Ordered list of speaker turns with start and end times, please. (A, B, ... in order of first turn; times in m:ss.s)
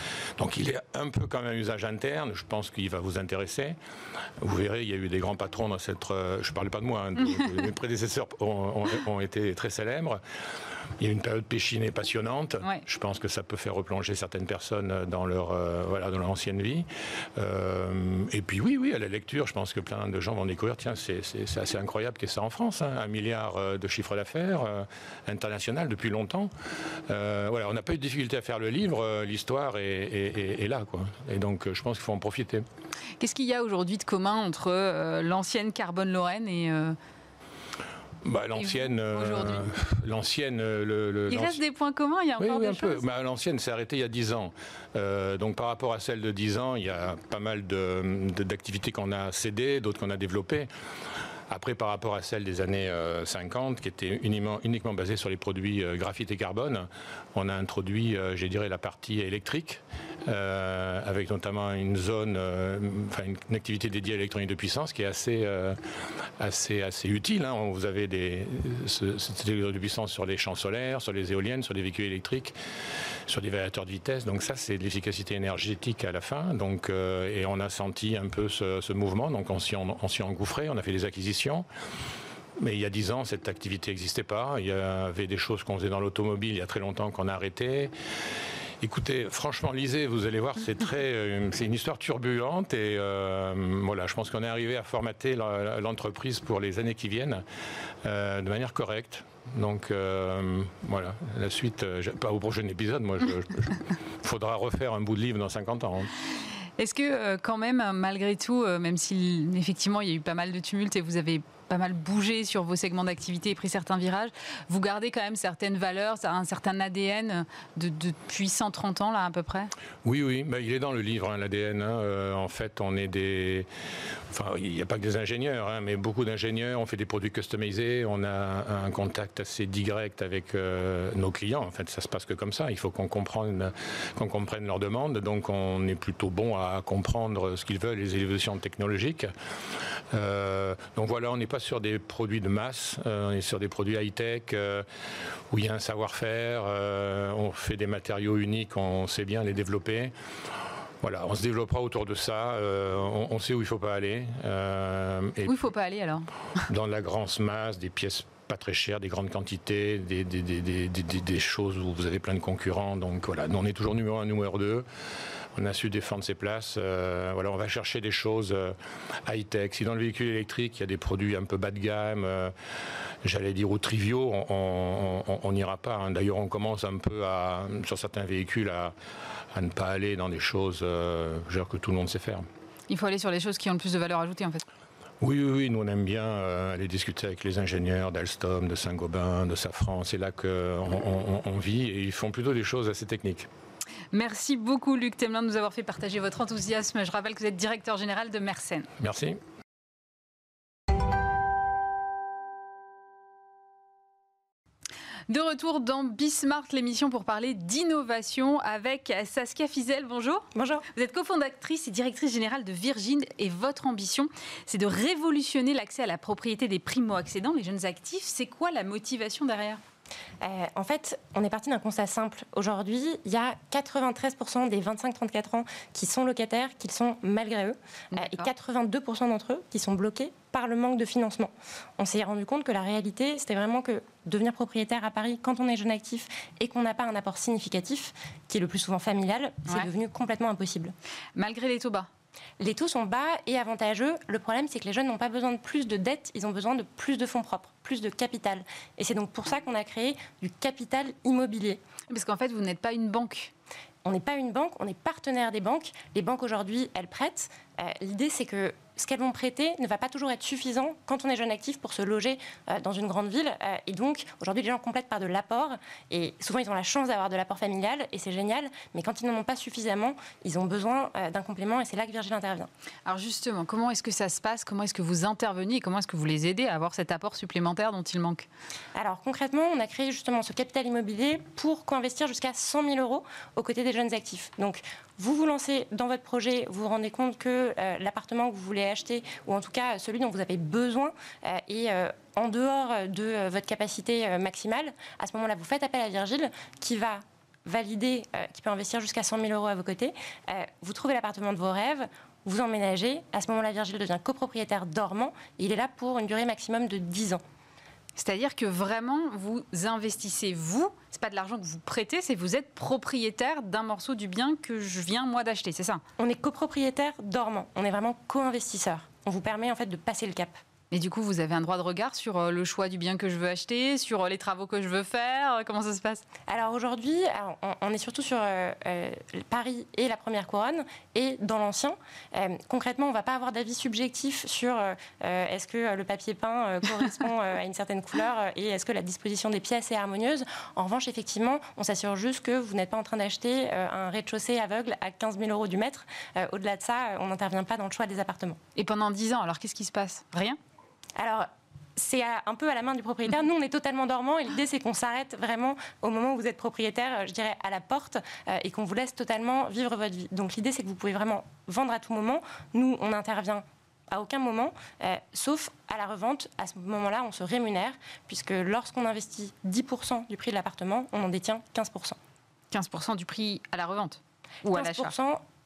0:00.4-0:03.8 A
0:04.4-0:10.2 A
0:11.0-0:26.5 A
0:27.1-0:32.6 A
0:33.2-0:37.0 B
0:38.2-0:41.6 A
0:38.6-0:39.7 B
0:41.3-0:43.0 B
0:42.4-0:50.7 A
0:51.5-1:05.8 A
1:06.4-1:12.6 A
1:13.3-1:21.6 A
1:22.6-1:27.9 A
1:28.8-1:37.4 A
1:38.0-1:46.1 A
1:46.8-1:59.7 B
2:00.0-2:03.7 A
2:04.3-2:19.3 A
2:20.1-2:24.9 A
2:25.5-2:30.1 A
2:31.0-2:35.7 A
2:35.5-2:36.6 B
2:36.7-2:44.9 A
2:45.5-2:52.5 A
2:53.2-2:59.0 A
2:59.5-3:02.5 A
3:02.9-3:04.6 B
3:05.2-3:13.5 A
3:14.1-3:18.9 B
3:19.0-3:19.4 A
3:25.3-3:39.8 B
3:30.6-3:30.8 C
3:40.4-4:00.9 C
3:48.1-3:48.5 B
4:01.4-4:02.1 B
4:02.6-4:11.8 C
4:12.1-4:13.5 B
4:14.0-4:32.7 C
4:33.1-4:38.5 B
4:39.0-5:07.4 C
5:08.2-5:16.0 B
5:16.2-5:20.6 C
5:20.9-5:26.2 B
5:26.5-5:48.6 C
5:48.8-5:50.6 B
5:51.2-6:12.2 C
6:12.7-6:15.2 B
6:14.7-6:15.4 C